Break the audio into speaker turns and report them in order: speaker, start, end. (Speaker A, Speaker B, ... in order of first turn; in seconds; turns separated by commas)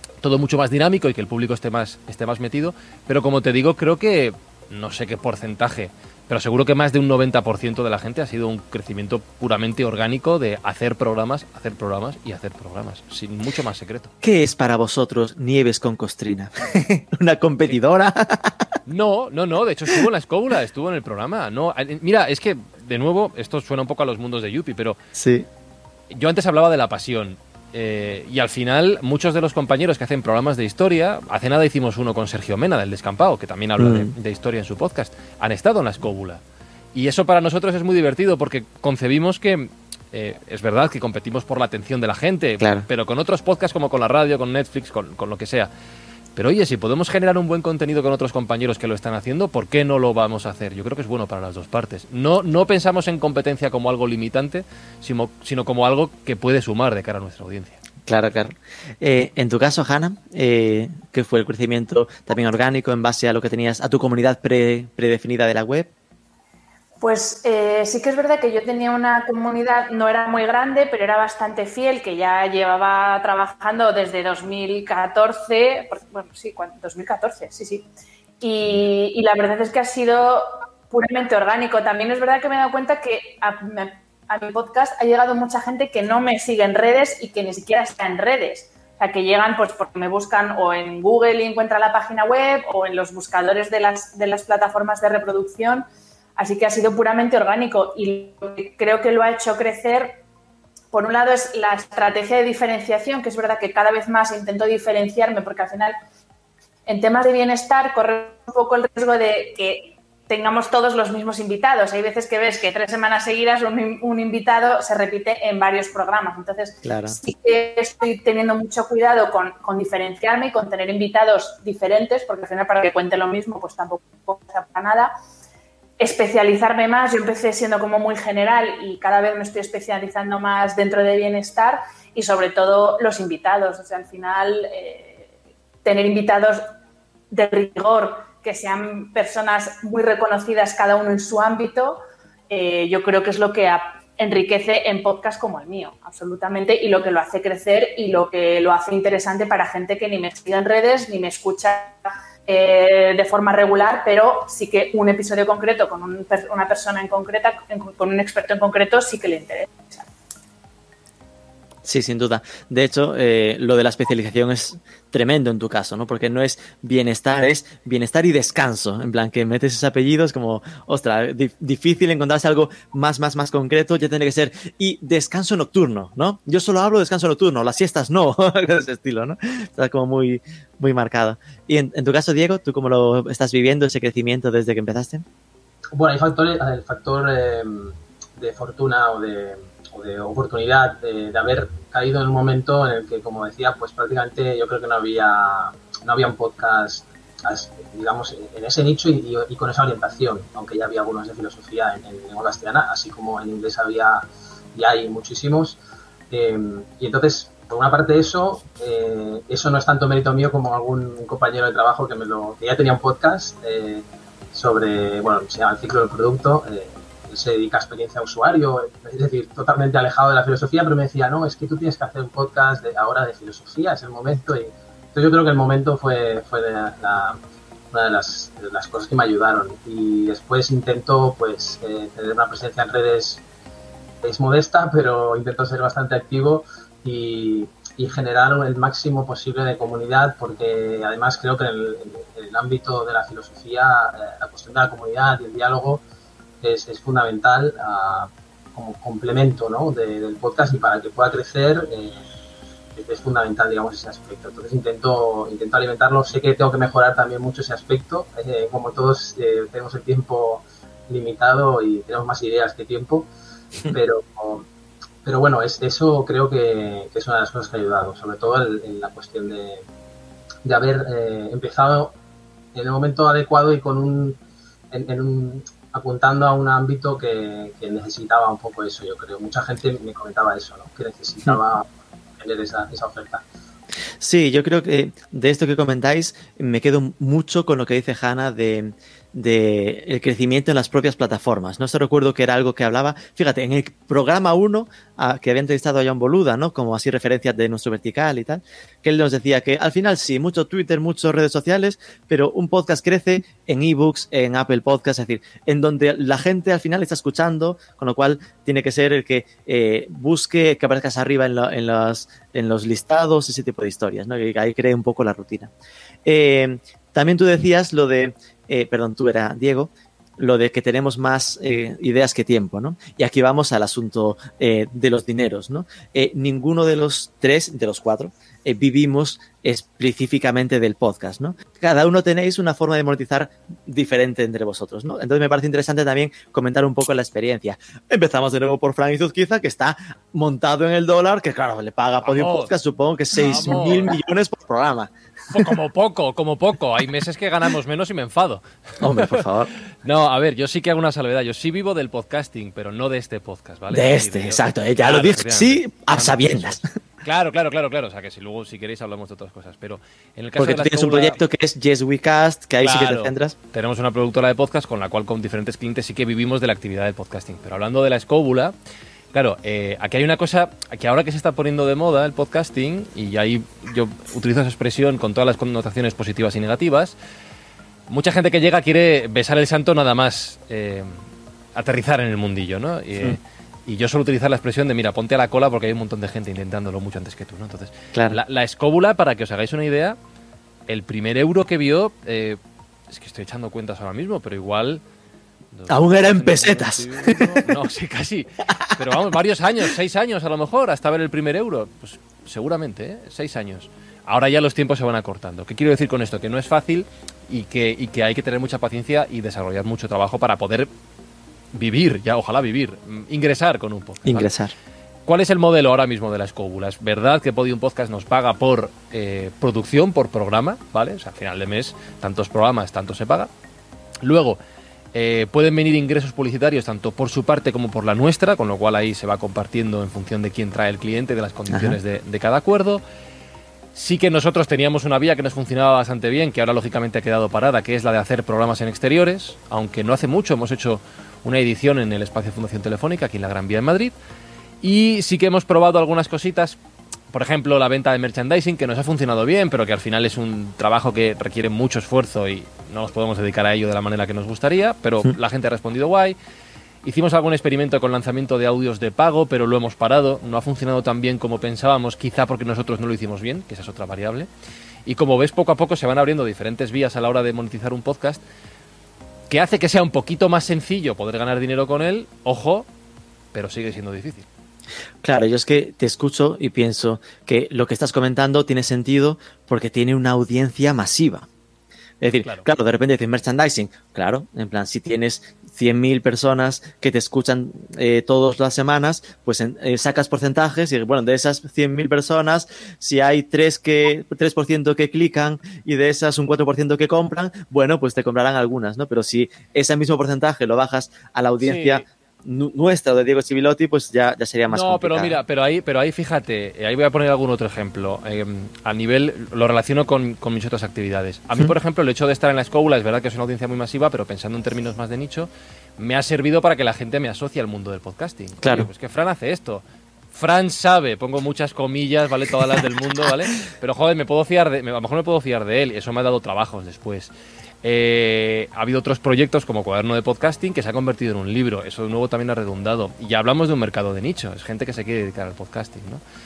Speaker A: 0.2-14.1, Speaker B: 14.2-18.7, Speaker A: 18.9-25.0, Speaker B: 25.1-25.5, Speaker A: 26.1-36.4, Speaker B: 33.8-34.1, Speaker A: 36.9-45.7, Speaker B: 42.6-42.9, Speaker A: 46.4-57.8, Speaker B: 58.0-65.9, Speaker C: 67.0-77.9, Speaker C: 78.4-95.8, Speaker C: 96.4-100.2, Speaker C: 100.9-105.9, Speaker C: 106.8-125.1, Speaker B: 116.8-117.2, Speaker C: 126.0-135.3, Speaker C: 135.8-136.6, Speaker C: 137.3-160.0, Speaker B: 161.8-185.2, Speaker D: 185.9-205.8, Speaker D: 206.3-227.4, Speaker D: 227.9-233.4, Speaker D: 234.2-246.0, Speaker D: 246.6-252.2, Speaker D: 252.9-263.3, Speaker D: 263.9-264.6, Speaker D: 265.2-269.9, Speaker D: 270.6-272.1, Speaker D: 272.7-274.4, Speaker D: 274.9-283.4, Speaker B: 284.2-315.7, Speaker B: 316.2-345.1, Speaker A: 342.2-342.7, Speaker A: 343.3-344.1, Speaker A: 345.5-349.5, Speaker B: 349.0-349.7, Speaker A: 350.0-361.4, Speaker B: 353.9-356.8, Speaker B: 360.6-363.5, Speaker A: 362.8-368.7, Speaker A: 369.3-377.1, Speaker A: 378.1-381.2, Speaker A: 381.7-390.2, Speaker B: 388.1-388.4, Speaker A: 390.9-392.6, Speaker A: 393.1-395.0, Speaker A: 395.7-410.9, Speaker B: 395.9-397.7, Speaker A: 411.7-414.5, Speaker B: 414.2-414.7, Speaker A: 415.2-423.5, Speaker A: 424.2-424.6, Speaker A: 425.1-433.0, Speaker B: 431.7-432.0, Speaker A: 433.9-444.1, Speaker A: 444.8-446.8, Speaker A: 447.3-456.4, Speaker A: 457.0-464.5, Speaker A: 465.1-468.4, Speaker A: 469.5-472.9, Speaker A: 473.5-474.5, Speaker B: 475.2-481.5, Speaker B: 482.2-505.4, Speaker A: 501.6-502.0, Speaker A: 504.7-527.3, Speaker B: 518.6-518.9, Speaker A: 527.8-536.2